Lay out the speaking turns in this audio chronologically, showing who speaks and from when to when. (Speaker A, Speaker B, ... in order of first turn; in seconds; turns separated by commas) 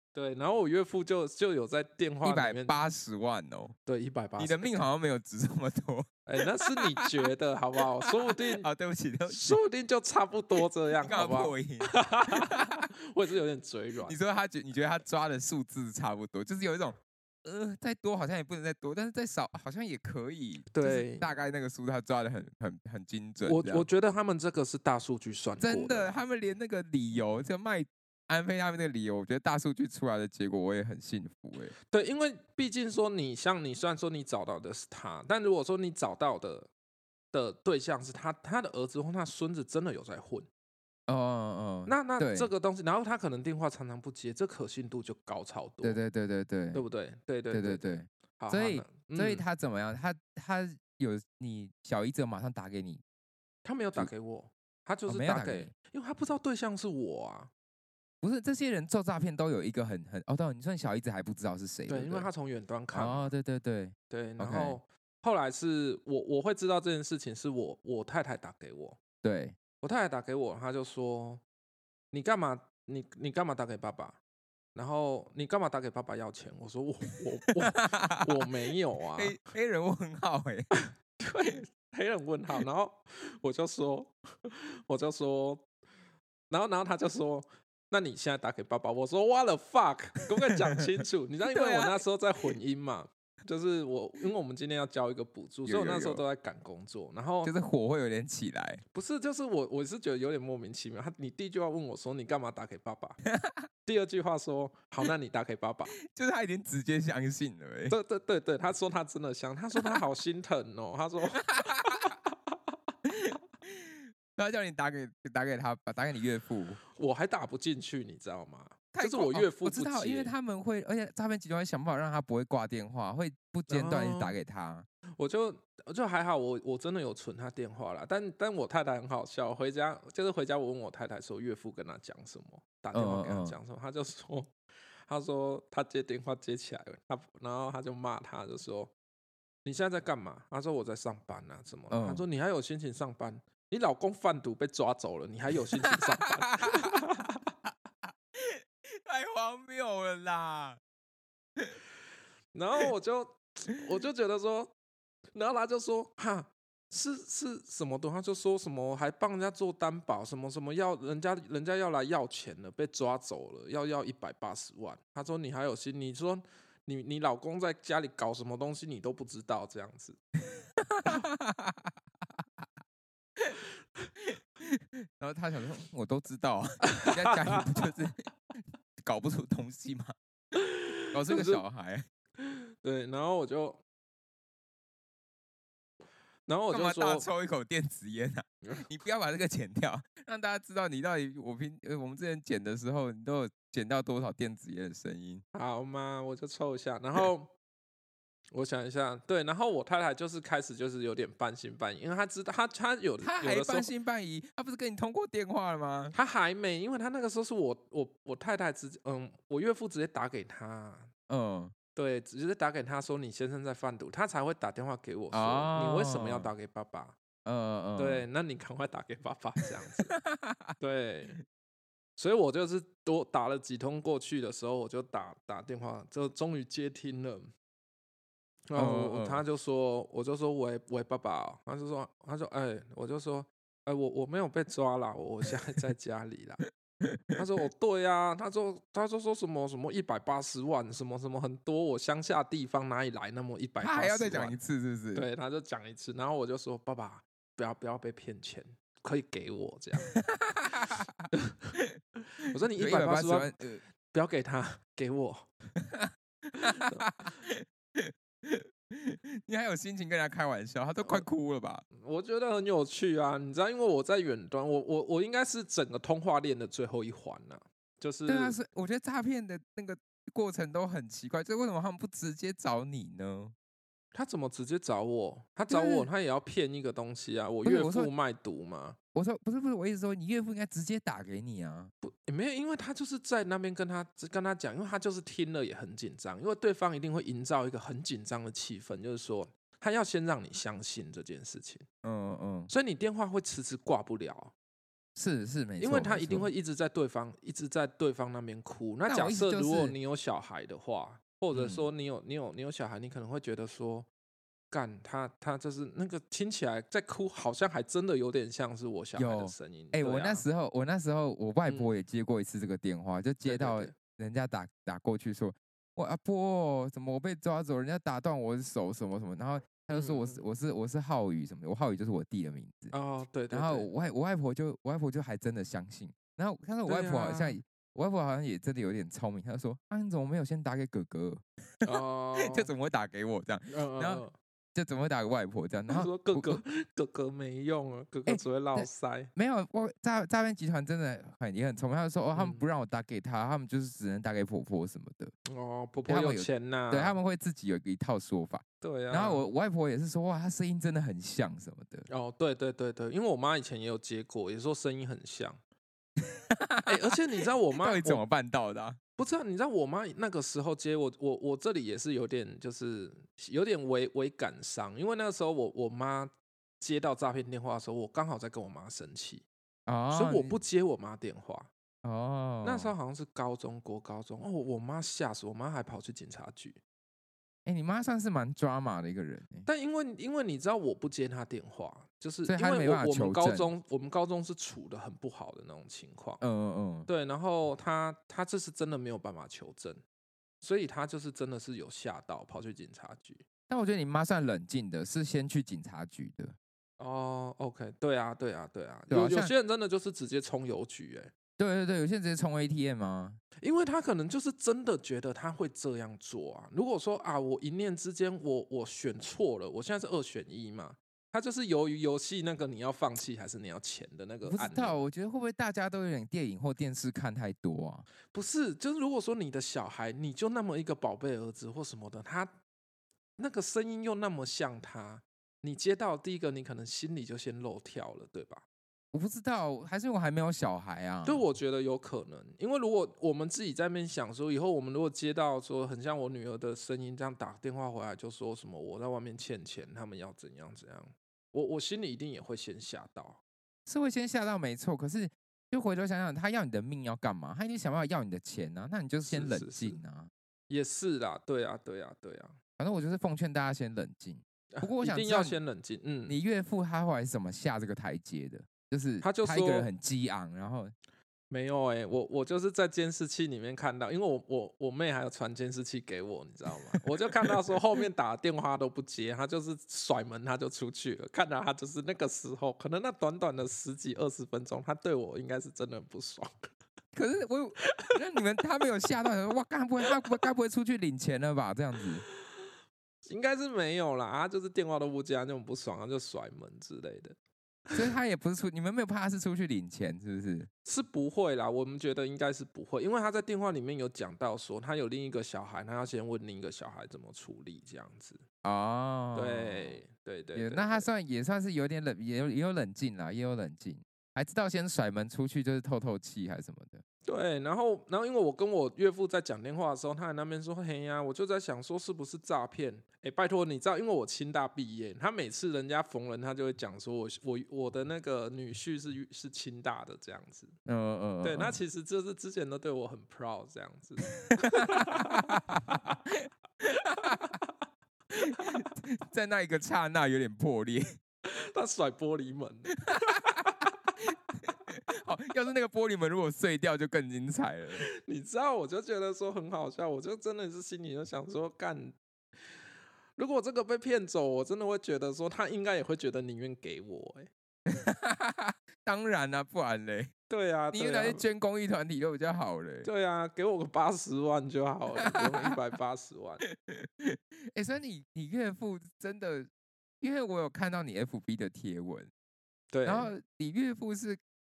Speaker A: 0.1-2.7, Speaker B: 2.2-3.7, Speaker A: 3.9-4.7, Speaker B: 4.4-6.2, Speaker A: 6.2-8.7, Speaker B: 8.3-9.6, Speaker A: 9.3-14.2, Speaker B: 11.0-12.9, Speaker B: 14.1-23.9, Speaker A: 20.7-21.3, Speaker A: 23.4-26.2, Speaker B: 25.6-31.8, Speaker A: 31.9-36.7, Speaker A: 37.3-40.5, Speaker B: 41.1-42.5, Speaker A: 41.9-46.0, Speaker B: 45.8-46.8, Speaker A: 46.7-49.4, Speaker B: 47.5-53.0, Speaker A: 53.6-57.5, Speaker B: 55.1-55.7, Speaker B: 58.2-62.3, Speaker A: 61.9-63.3, Speaker B: 62.9-64.8, Speaker A: 64.1-69.0, Speaker B: 69.2-69.5, Speaker A: 69.8-71.4, Speaker A: 72.1-74.2, Speaker A: 74.7-79.4, Speaker B: 77.6-78.5, Speaker B: 79.2-80.7, Speaker A: 81.2-85.7, Speaker A: 86.5-97.5, Speaker B: 91.4-92.0, Speaker B: 95.7-96.2, Speaker B: 97.4-98.8, Speaker A: 98.9-103.2, Speaker B: 103.2-103.7, Speaker A: 103.8-105.9, Speaker B: 106.0-108.0, Speaker A: 107.9-112.3, Speaker B: 111.5-112.1, Speaker B: 113.0-116.8, Speaker A: 116.9-120.3, Speaker B: 118.9-124.8, Speaker A: 123.7-124.4, Speaker A: 125.2-134.5, Speaker B: 132.9-133.6, Speaker A: 135.1-138.9, Speaker A: 139.6-147.4, Speaker B: 141.9-142.2, Speaker B: 145.9-147.0, Speaker B: 148.3-150.8, Speaker A: 152.5-154.7, Speaker A: 155.3-170.2, Speaker B: 170.9-172.4, Speaker B: 174.2-178.2, Speaker A: 177.0-177.6, Speaker B: 179.0-180.1, Speaker A: 180.6-181.6, Speaker B: 181.1-182.1, Speaker A: 182.4-183.8, Speaker A: 186.5-187.3, Speaker B: 186.7-195.4, Speaker A: 195.5-197.5, Speaker A: 198.5-203.9, Speaker B: 203.2-206.1, Speaker A: 206.1-211.1, Speaker B: 211.3-211.7, Speaker A: 211.9-217.2, Speaker B: 215.3-216.5, Speaker B: 217.4-218.2, Speaker A: 218.0-220.1, Speaker B: 220.1-220.7, Speaker A: 220.8-221.4, Speaker A: 222.2-227.5, Speaker A: 228.7-236.6, Speaker B: 228.7-229.4, Speaker B: 237.0-237.4, Speaker A: 237.3-244.6, Speaker B: 243.8-245.3, Speaker A: 245.1-250.2, Speaker B: 250.1-251.3, Speaker A: 251.3-251.8, Speaker A: 252.4-253.5, Speaker B: 252.8-253.8, Speaker A: 254.1-255.5, Speaker B: 255.8-261.8, Speaker A: 256.6-257.0, Speaker A: 261.9-268.6, Speaker B: 268.3-273.5, Speaker A: 274.1-279.0, Speaker B: 275.7-276.1, Speaker B: 277.6-278.1, Speaker B: 279.1-281.9, Speaker A: 282.0-291.8, Speaker B: 292.0-292.7, Speaker A: 292.7-294.5, Speaker B: 295.1-296.5, Speaker A: 295.8-304.1, Speaker B: 299.1-299.9, Speaker B: 301.5-301.9, Speaker A: 304.7-310.4, Speaker B: 309.1-322.9, Speaker A: 311.7-311.9, Speaker A: 313.4-313.9, Speaker A: 319.9-320.4, Speaker A: 322.9-323.9, Speaker B: 323.5-334.2, Speaker A: 326.9-327.6, Speaker A: 331.8-332.7, Speaker A: 333.7-334.3, Speaker B: 334.7-336.6, Speaker A: 335.9-339.3, Speaker B: 338.3-345.3, Speaker A: 342.3-342.6, Speaker A: 345.5-347.1, Speaker B: 346.1-352.1, Speaker A: 348.8-349.4, Speaker A: 352.1-355.6, Speaker B: 356.5-356.9, Speaker A: 356.9-358.2, Speaker B: 357.8-359.0, Speaker A: 359.2-369.5, Speaker B: 369.9-370.5, Speaker A: 370.1-371.7, Speaker B: 372.0-372.9, Speaker A: 372.6-376.8, Speaker B: 377.6-379.7, Speaker A: 379.6-386.4, Speaker B: 382.5-383.7, Speaker B: 386.4-387.1, Speaker A: 387.1-390.0, Speaker A: 390.6-393.4, Speaker B: 393.7-396.6, Speaker A: 397.0-401.3, Speaker B: 399.1-399.5, Speaker B: 401.6-403.4, Speaker A: 403.6-415.0, Speaker B: 414.4-418.1, Speaker A: 418.3-422.5, Speaker A: 423.4-428.6, Speaker B: 429.1-431.4, Speaker A: 431.2-443.4, Speaker B: 443.9-450.3, Speaker A: 449.2-450.0, Speaker A: 450.7-452.6, Speaker B: 452.8-455.6, Speaker A: 454.7-456.4, Speaker B: 456.3-460.9, Speaker A: 459.2-459.9, Speaker A: 461.5-476.5, Speaker B: 466.9-467.6, Speaker B: 477.1-482.2, Speaker A: 483.2-487.4, Speaker B: 487.9-490.7, Speaker A: 490.8-498.4, Speaker B: 498.6-500.0, Speaker A: 499.3-501.1, Speaker B: 500.5-507.0, Speaker A: 507.2-520.8, Speaker B: 520.9-521.8, Speaker A: 521.4-526.2, Speaker B: 524.3-527.5, Speaker A: 527.1-527.7, Speaker B: 528.3-531.2, Speaker A: 531.4-533.9, Speaker B: 533.1-533.6, Speaker B: 534.7-538.1, Speaker A: 538.0-542.2, Speaker A: 543.4-547.5, Speaker B: 547.9-550.3, Speaker A: 550.5-551.4, Speaker B: 550.9-553.1, Speaker A: 553.0-556.6, Speaker B: 555.2-555.7, Speaker B: 556.7-559.7, Speaker B: 560.2-562.3, Speaker A: 562.9-563.3, Speaker B: 563.0-564.4